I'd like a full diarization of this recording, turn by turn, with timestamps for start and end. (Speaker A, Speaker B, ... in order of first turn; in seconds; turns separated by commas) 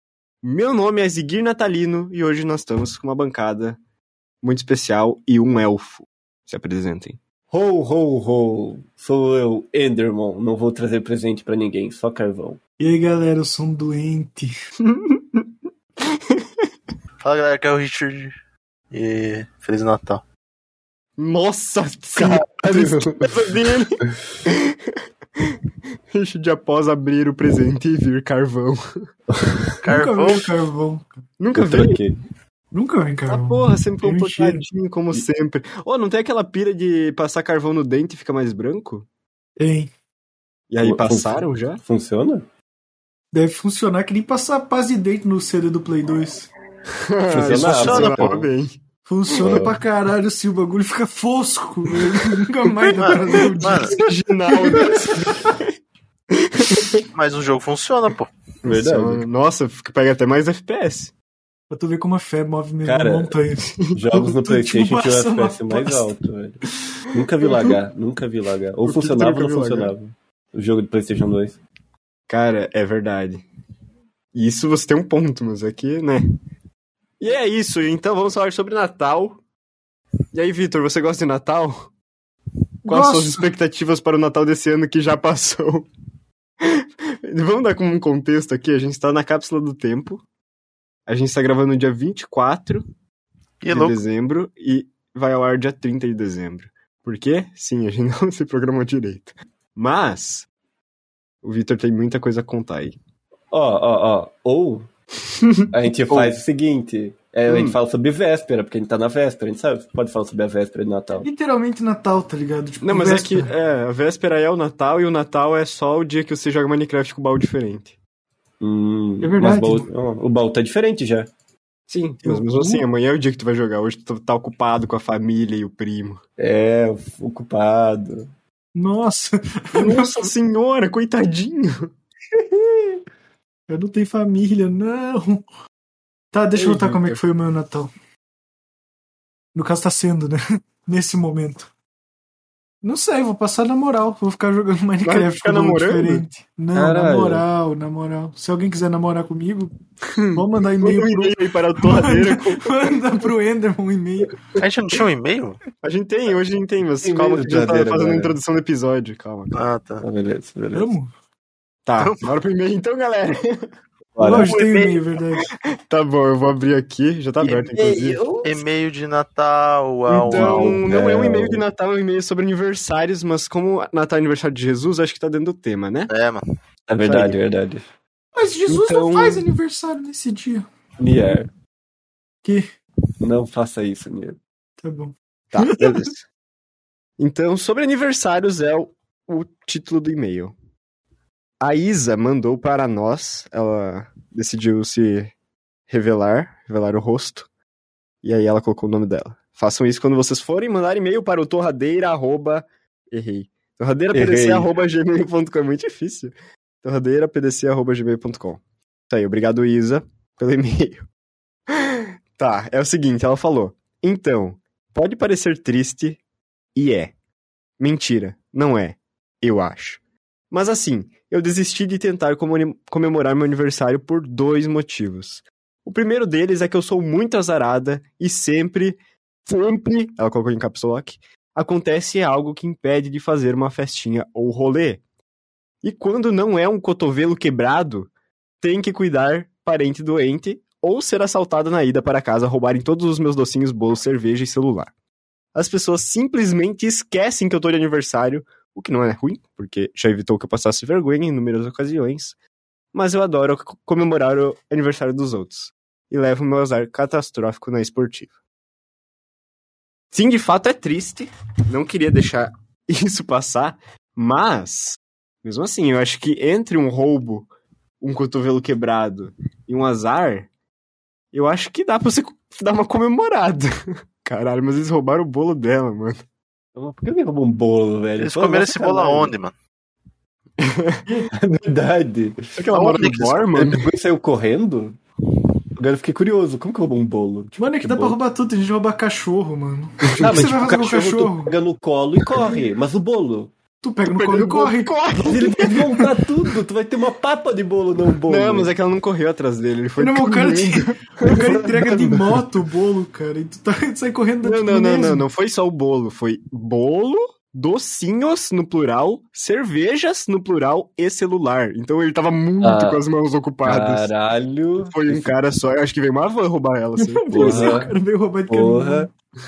Speaker A: 0.4-3.8, Speaker A: 4.4-7.2, Speaker B: 7.5-12.6, Speaker C: 12.8-14.5, Speaker A: 14.8-15.5, Speaker D: 17.2-18.3, Speaker D: 18.9-20.2, Speaker A: 21.2-25.4, Speaker B: 22.1-23.3, Speaker A: 26.1-28.8, Speaker C: 29.8-31.1, Speaker D: 29.9-30.6, Speaker A: 31.4-32.0, Speaker B: 31.5-32.1, Speaker C: 32.7-34.6, Speaker A: 33.3-39.1, Speaker C: 39.6-39.9, Speaker A: 40.7-41.8, Speaker B: 40.8-42.4, Speaker C: 43.3-46.5, Speaker A: 47.1-48.8, Speaker B: 47.3-48.5, Speaker D: 47.8-48.2, Speaker C: 49.0-54.0, Speaker B: 49.4-49.8, Speaker A: 52.8-55.7, Speaker D: 53.0-53.9, Speaker C: 54.7-55.4, Speaker A: 56.4-56.9, Speaker D: 57.1-58.3, Speaker A: 58.6-61.1, Speaker B: 58.6-59.2, Speaker C: 61.7-66.1, Speaker B: 62.8-63.3, Speaker B: 63.9-66.6, Speaker B: 67.1-71.6, Speaker A: 68.8-69.9, Speaker A: 72.3-73.5, Speaker A: 74.3-76.2, Speaker A: 77.2-79.4, Speaker A: 80.3-81.9, Speaker C: 82.9-83.4, Speaker A: 82.9-85.9, Speaker A: 86.7-90.2, Speaker A: 91.1-92.8, Speaker D: 93.6-94.0, Speaker A: 93.7-100.5, Speaker A: 101.4-103.0, Speaker B: 103.5-104.8, Speaker A: 105.4-106.4, Speaker B: 105.7-111.3, Speaker A: 107.5-107.8, Speaker C: 111.2-113.5, Speaker A: 112.8-118.0, Speaker B: 118.6-121.3, Speaker C: 119.2-119.9, Speaker A: 121.9-126.2, Speaker C: 122.2-122.8, Speaker B: 126.4-128.3, Speaker C: 128.7-130.3, Speaker A: 129.7-131.9, Speaker B: 132.5-133.0, Speaker C: 133.7-135.4, Speaker C: 136.3-137.9, Speaker A: 136.6-137.2, Speaker C: 139.5-141.7, Speaker C: 142.8-149.7, Speaker A: 145.0-146.2, Speaker B: 146.7-147.4, Speaker A: 150.2-152.9, Speaker C: 150.3-154.3, Speaker D: 154.6-155.6, Speaker A: 155.8-159.6, Speaker B: 157.0-158.3, Speaker D: 159.5-160.0, Speaker B: 160.0-160.9, Speaker C: 160.7-161.1, Speaker A: 161.8-163.7, Speaker D: 162.0-162.2, Speaker B: 164.1-164.5, Speaker C: 164.2-165.4, Speaker D: 164.4-165.0, Speaker A: 165.8-168.2, Speaker B: 167.4-168.6, Speaker D: 168.4-170.8, Speaker A: 170.1-176.1, Speaker B: 170.3-171.6, Speaker D: 176.1-176.4, Speaker B: 176.9-177.8, Speaker A: 177.0-177.4, Speaker C: 178.3-180.7, Speaker A: 178.7-179.5, Speaker B: 181.0-181.5, Speaker B: 183.2-184.4, Speaker C: 184.8-186.0, Speaker A: 185.5-186.2, Speaker A: 187.2-190.5, Speaker A: 191.6-195.3, Speaker A: 195.9-197.5, Speaker A: 198.2-211.0, Speaker B: 204.1-204.7, Speaker A: 211.8-216.2, Speaker A: 216.7-217.1, Speaker A: 217.8-220.0, Speaker A: 220.5-235.0, Speaker A: 235.8-238.1, Speaker A: 238.6-244.9, Speaker A: 245.5-252.3, Speaker A: 252.9-258.3, Speaker A: 260.1-267.5, Speaker A: 268.0-270.5, Speaker A: 271.3-276.2, Speaker B: 276.8-279.3, Speaker D: 278.2-279.5, Speaker A: 280.6-281.0, Speaker C: 281.1-281.3, Speaker B: 281.4-282.4, Speaker A: 282.6-283.8, Speaker D: 282.7-283.4, Speaker B: 283.5-285.0, Speaker B: 285.8-288.1, Speaker C: 287.6-291.5, Speaker B: 290.1-293.5, Speaker C: 293.8-294.9, Speaker A: 294.0-296.0, Speaker B: 295.2-298.7, Speaker A: 298.2-301.5, Speaker C: 300.0-305.2, Speaker B: 301.5-302.1, Speaker A: 304.4-314.1, Speaker B: 312.6-313.0, Speaker B: 313.6-315.3, Speaker A: 314.9-317.8, Speaker C: 317.0-319.1, Speaker B: 317.3-317.9, Speaker B: 318.5-319.1